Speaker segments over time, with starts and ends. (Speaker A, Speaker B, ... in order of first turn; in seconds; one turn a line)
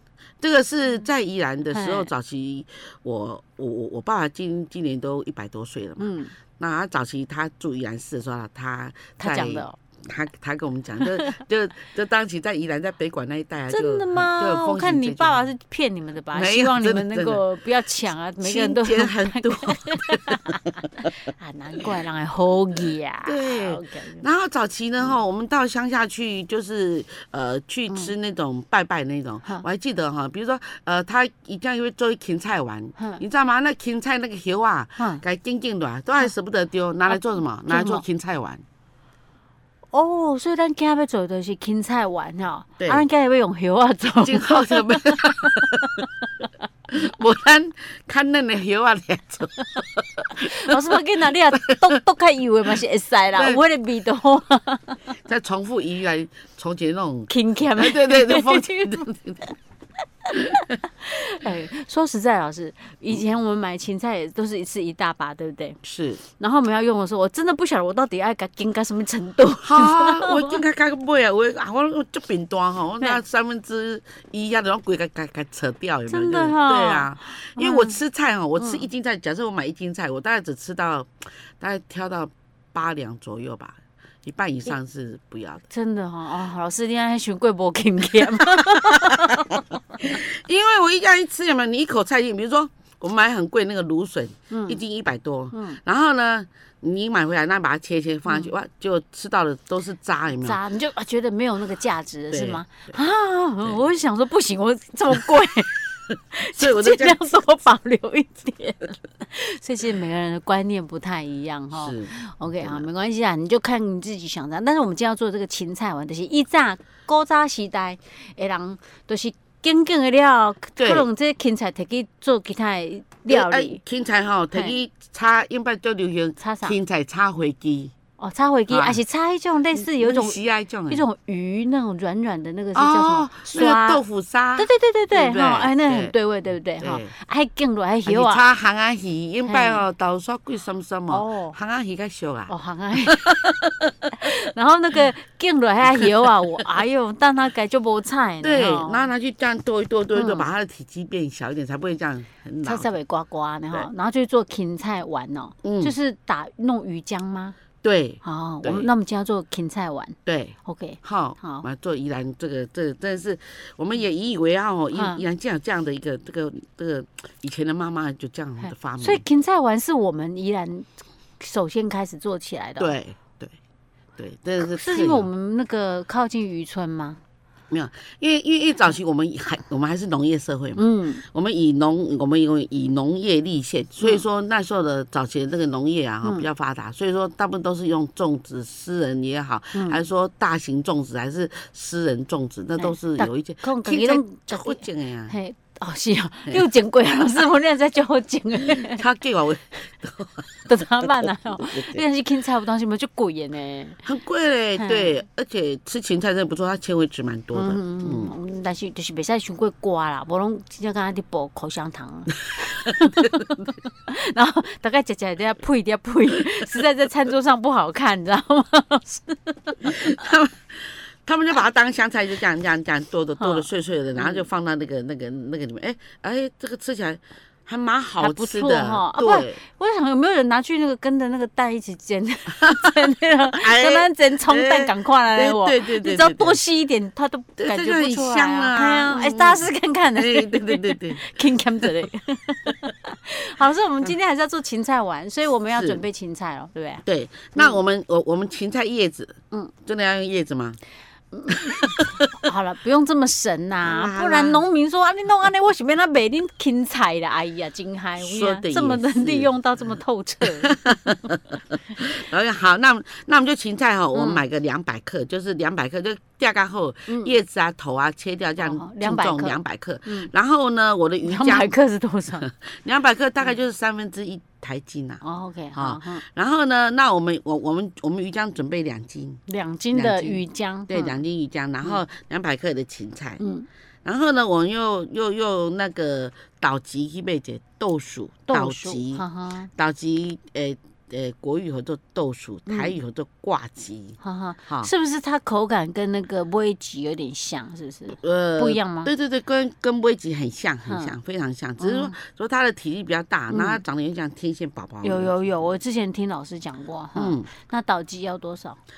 Speaker A: 0.4-15.5
Speaker B: 1.7-2.1
Speaker B: 6.0-6.3
Speaker B: 9.2-9.8
Speaker B: 13.7-24.2
Speaker A: 16.3-17.4
Speaker A: 18.4-21.1
Speaker A: 23.2-38.6
Speaker B: 33.0-33.2
Speaker B: 35.0-35.2
Speaker B: 37.1-38.0
Speaker B: 39.9-46.1
Speaker A: 42.8-43.0
Speaker A: 44.1-46.0
Speaker A: 46.9-50.8
Speaker B: 50.4-55.0
Speaker A: 51.5-52.0
Speaker A: 53.4-53.6
Speaker A: 55.2-59.5
Speaker B: 57.3-59.0
Speaker B: 60.2-65.8
Speaker A: 60.3-60.7
Speaker A: 65.8-66.2
Speaker B: 66.3-70.6
Speaker A: 69.6-85.6
Speaker B: 76.1-78.0
Speaker B: 78.6-78.9
Speaker B: 85.7-90.1
Speaker A: 88.4-100.6
Speaker B: 94.5-94.8
Speaker B: 95.5-95.8
Speaker B: 100.4-105.8
Speaker A: 102.3-103.0
Speaker A: 106.1-107.2
Speaker B: 106.3-123.8
Speaker A: 111.7-112.8
Speaker A: 120.8-121.0
Speaker A: 123.3-127.9
Speaker B: 126.4-126.8
Speaker B: 128.2-134.0
Speaker A: 128.7-129.0
Speaker A: 129.7-131.0
Speaker A: 132.7-136.1
Speaker B: 134.6-138.4
Speaker A: 136.8-137.1
Speaker A: 138.1-144.3
Speaker B: 139.4-139.8
Speaker B: 141.1-141.6
Speaker B: 142.5-143.6
Speaker B: 144.2-149.1
Speaker A: 146.0-146.6
Speaker A: 148.4-152.9
Speaker B: 150.1-150.5
Speaker B: 152.6-157.6
Speaker A: 155.6-155.9
Speaker A: 157.8-158.9
Speaker B: 158.2-161.7
Speaker A: 160.2-169.2
Speaker B: 164.9-165.2
Speaker B: 168.6-172.9
Speaker A: 172.8-173.5
Speaker A: 174.2-175.3
Speaker B: 174.6-177.2
Speaker A: 177.7-195.3
Speaker B: 180.8-181.2
Speaker B: 192.8-199.0
Speaker A: 198.7-202.0
Speaker B: 200.7-204.0
Speaker A: 204.0-208.3
Speaker B: 204.8-205.1
Speaker B: 207.5-220.1
Speaker A: 212.8-213.3
Speaker A: 219.8-229.6
Speaker B: 223.4-224.4
Speaker B: 228.2-247.0
Speaker A: 232.6-232.9
Speaker A: 233.6-236.6
Speaker A: 237.6-239.6
Speaker A: 240.1-241.3
Speaker A: 245.7-246.0
Speaker A: 247.0-250.8
Speaker B: 251.3-260.8
Speaker A: 251.5-252.3
Speaker A: 253.8-254.6
Speaker A: 258.2-259.5
Speaker A: 260.4-271.7
Speaker B: 264.1-264.4
Speaker B: 267.1-267.3
Speaker B: 268.6-270.3
Speaker B: 271.2-272.4
Speaker A: 272.4-279.4
Speaker B: 275.2-276.2
Speaker B: 279.5-281.2
Speaker A: 279.9-283.4
Speaker B: 283.4-283.7
Speaker A: 284.0-289.2
Speaker B: 288.5-289.7
Speaker A: 289.8-294.9
Speaker B: 292.7-292.9
Speaker B: 294.2-299.1
Speaker A: 298.1-305.7
Speaker B: 300.9-301.1
Speaker B: 301.8-302.1
Speaker B: 303.5-303.8
Speaker B: 305.0-308.8
Speaker A: 307.1-307.5